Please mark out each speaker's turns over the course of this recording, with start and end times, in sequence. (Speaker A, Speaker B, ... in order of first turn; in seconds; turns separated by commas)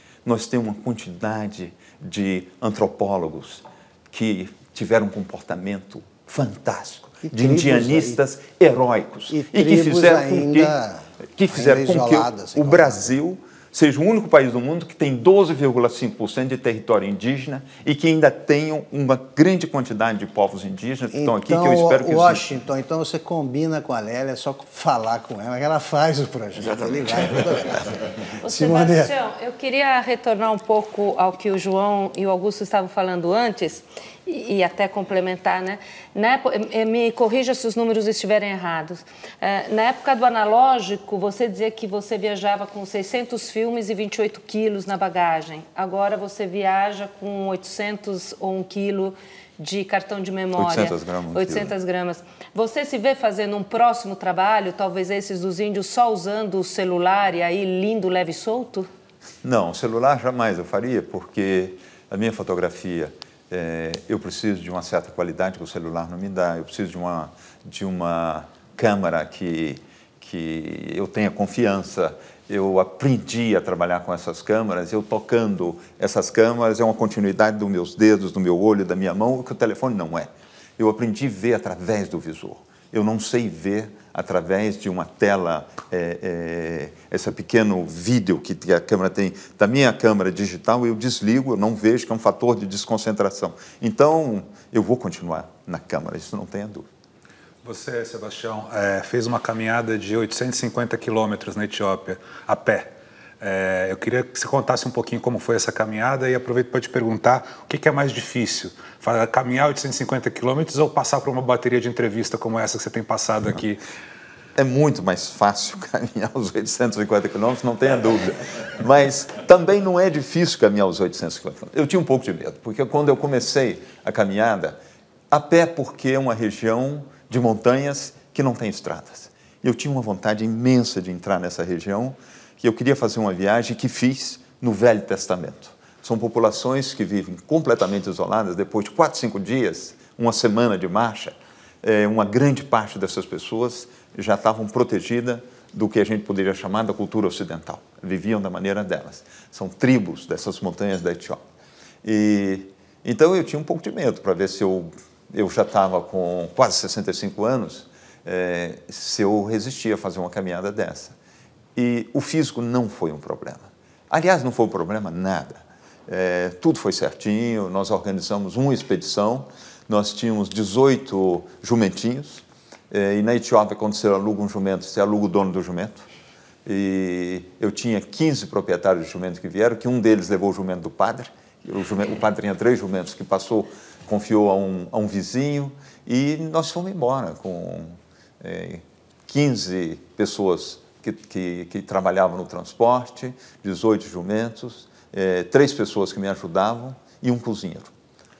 Speaker A: 0.2-10.8, Speaker B: 7.2-8.2, Speaker B: 9.3-13.1, Speaker A: 11.3-22.4, Speaker B: 21.1-29.1, Speaker C: 28.4-58.9, Speaker A: 50.5-51.7, Speaker A: 59.4-96.9, Speaker D: 97.6-113.8, Speaker A: 114.6-124.8, Speaker A: 125.3-151.4, Speaker A: 152.0-161.1, Speaker A: 161.8-176.1, Speaker A: 176.6-197.9